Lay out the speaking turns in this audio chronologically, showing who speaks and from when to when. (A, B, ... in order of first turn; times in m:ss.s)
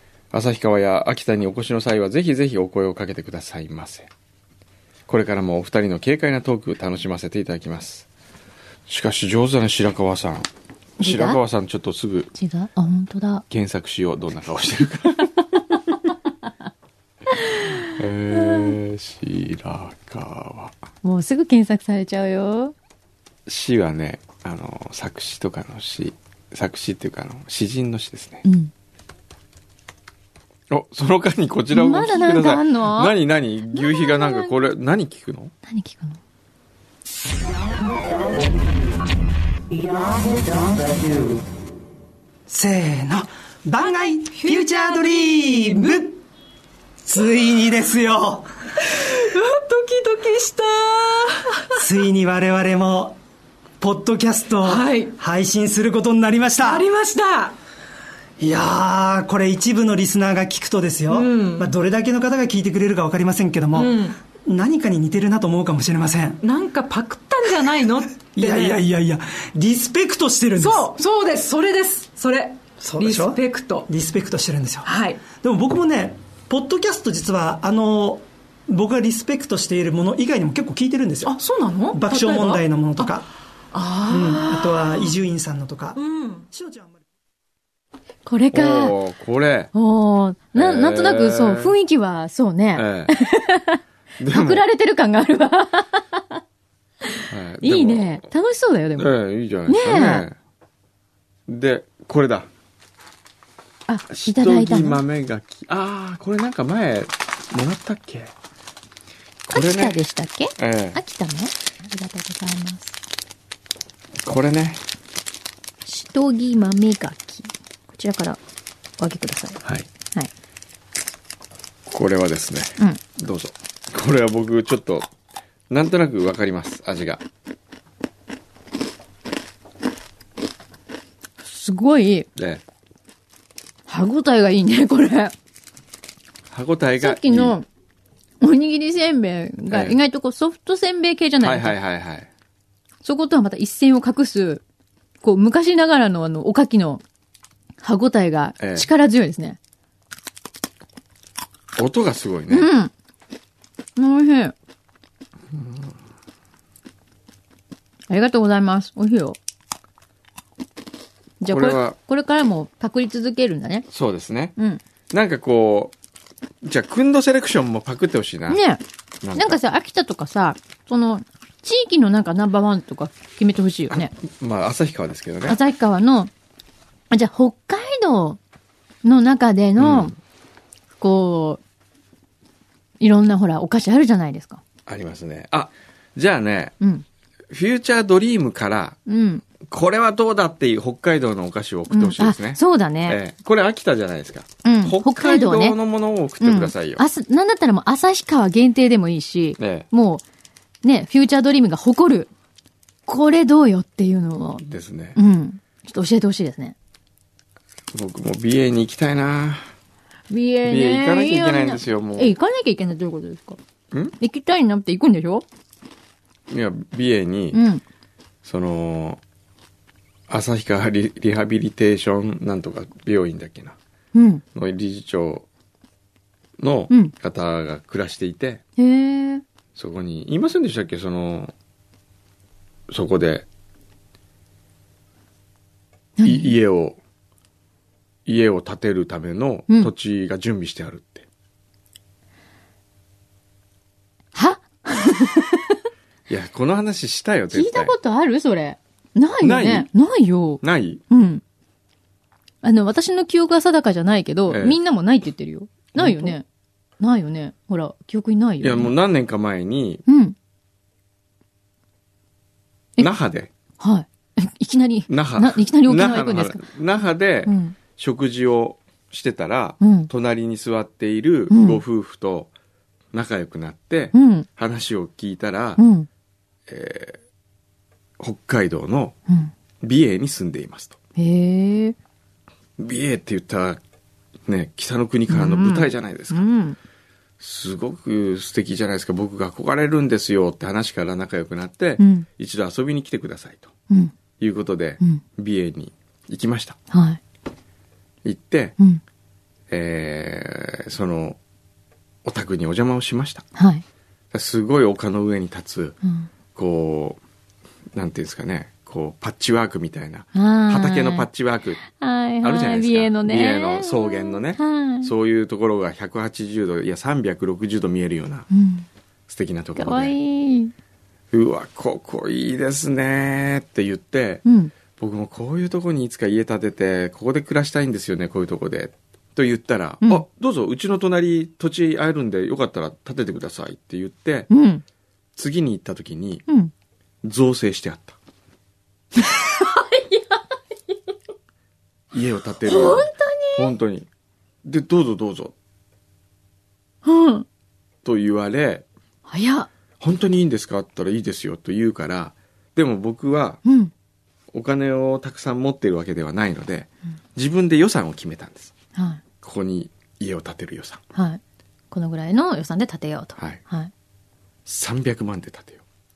0:00.3-0:04.1 A
0:05.1-0:08.1 A
0:08.9-0:10.5 A
0:11.0-0:11.4 B
0:11.0-0:12.3 A
0:12.4-0:13.4 B
0:13.5-0:15.6 A
0:17.3-0:18.7 B
0:17.9-0:20.8 A
0:21.0-0:22.8 B
0:23.5-0:28.4 A
0:28.4-0:28.7 B
0:30.7-0:35.5 A
0:31.7-0:33.2 B
0:33.7-0:34.5 B
0:35.7-0:36.2 B
0:42.5-0:46.2 C
0:43.8-0:46.0 D
0:47.0-0:48.5 C
0:48.8-0:51.8 D
0:51.8-0:53.2 C
0:53.8-0:56.9 C
0:54.6-0:55.2 D
0:56.6-0:57.6 D
0:58.4-1:06.4 C
1:01.1-1:01.8 D
1:03.7-1:04.2 D
1:06.4-1:08.8 D
1:08.4-1:10.9 C
1:10.6-1:13.9 D
1:12.8-1:23.3 C
1:14.8-1:15.2 D
1:21.2-1:23.2 D
1:23.7-1:25.1 D
1:24.1-1:27.0 C
1:26.0-1:26.5 D
1:28.3-1:29.0 B
1:28.5-1:29.7 A
1:29.7-1:36.4 B
1:30.5-1:31.8 A
1:32.8-1:33.1 A
1:34.2-1:34.6 A
1:37.1-1:39.1 B
1:37.3-1:38.3 A
1:39.0-1:40.4 A
1:39.7-1:40.3 B
1:41.5-1:42.5 A
1:43.9-1:45.0 B
1:44.1-1:48.3 A
1:49.5-1:50.0 A
1:49.5-1:53.0 B
1:50.6-1:51.0 A
1:54.2-1:54.8 A
1:55.8-1:58.4 B
1:59.0-2:00.3 B
2:01.9-2:05.1 A
2:05.7-2:07.2 A
2:11.4-2:12.3 B
2:12.4-2:12.6 A
2:13.9-2:15.3 B
2:16.5-2:17.6 A
2:17.0-2:17.7 B
2:18.4-2:21.8 B
2:19.7-2:20.0 A
2:21.4-2:22.3 A
2:23.0-2:24.6 B
2:25.2-2:27.0 B
2:27.8-2:29.6 B
2:28.6-2:28.9 A
2:31.8-2:32.7 A
2:32.5-2:32.9 B
2:34.0-2:34.5 B
2:35.5-2:36.0 A
2:38.1-2:39.4 B
2:41.4-2:43.9 B
2:41.4-2:42.0 A
2:43.9-2:44.6 A
2:45.1-2:45.9 A
2:46.6-2:48.6 A
2:48.5-2:48.8 B
2:49.2-2:49.6 A
2:49.4-2:54.1 B
2:53.9-2:55.6 A
2:55.5-2:56.3 B
2:57.1-2:58.4 B
2:59.0-3:00.2 B
2:59.8-3:00.2 A
3:01.0-3:01.6 B
3:03.0-3:04.6 B
3:04.9-3:06.8 A
3:07.5-3:09.0 A
3:09.1-3:09.4 B
3:09.6-3:17.0 A
3:11.9-3:13.2 B
3:14.6-3:15.8 B
3:16.4-3:20.2 B
3:19.6-3:19.9 A
3:20.8-3:22.3 B
3:23.1-3:24.6 B
3:24.6-3:25.2 A
3:25.2-3:26.8 B
3:27.9-3:29.7 A
3:30.3-3:33.6 B
3:30.6-3:32.3 A
3:34.2-3:35.4 B
3:36.5-3:37.6 A
3:37.5-3:37.8 B
3:38.4-3:39.2 A
3:40.3-3:43.8 A
3:44.1-3:44.4 B
3:44.6-3:45.5 A
3:46.6-3:48.6 A
3:48.8-3:49.4 B
3:49.8-3:51.5 A
3:52.9-3:53.5 A
3:56.2-3:56.5 B
3:56.2-3:57.0 A
3:58.3-4:01.3 A
4:04.4-4:05.8 B
4:06.3-4:08.0 A
4:07.5-4:11.4 B
4:09.4-4:09.9 A
4:10.6-4:11.0 A
4:12.6-4:16.4 B
4:14.5-4:14.8 A
4:15.9-4:16.4 A
4:17.0-4:18.9 B
4:18.6-4:20.0 A
4:20.1-4:20.4 B
4:23.0-4:23.5 A
4:23.8-4:26.6 B
4:25.1-4:32.5 A
4:27.5-4:27.8 B
4:29.8-4:30.1 B
4:31.5-4:31.8 B
4:33.1-4:35.8 A
4:34.1-4:34.5 B
4:35.8-4:36.1 B
4:36.7-4:37.2 A
4:38.2-4:39.2 A
4:39.8-4:41.0 A
4:41.2-4:42.0 B
4:42.8-4:43.8 A
4:44.5-4:46.5 A
4:45.3-4:46.8 B
4:47.4-4:53.7 A
4:52.0-4:52.3 B
4:54.4-4:56.8 A
4:56.9-4:57.2 B
4:58.2-4:58.8 A
4:59.7-5:01.4 A
5:02.2-5:03.5 A
5:03.6-5:03.8 B
5:04.3-5:06.0 A
5:06.0-5:06.3 B
5:06.6-5:07.2 A
5:07.9-5:11.8 A
5:10.4-5:11.3 B
5:11.8-5:15.1 B
5:12.4-5:18.5 A
5:18.5-5:18.9 B
5:19.3-5:20.2 A
5:19.8-5:20.7 B
5:21.3-5:34.5 A
5:24.4-5:24.7 B
5:34.5-5:34.8 B
5:35.4-5:36.4 A
5:37.2-5:38.2 A
5:39.2-5:41.0 B
5:42.1-5:44.1 A
5:42.7-5:43.7 B
5:44.6-5:45.5 A
5:47.0-5:47.5 B
5:48.0-5:48.9 A
5:49.3-5:49.7 B
5:50.0-5:53.6 A
5:53.6-5:53.9 B
5:54.5-5:58.7 A
5:59.0-5:59.2 B
5:59.4-6:01.0 A
6:01.1-6:01.4 B
6:01.9-6:03.9 B
6:04.7-6:05.8 A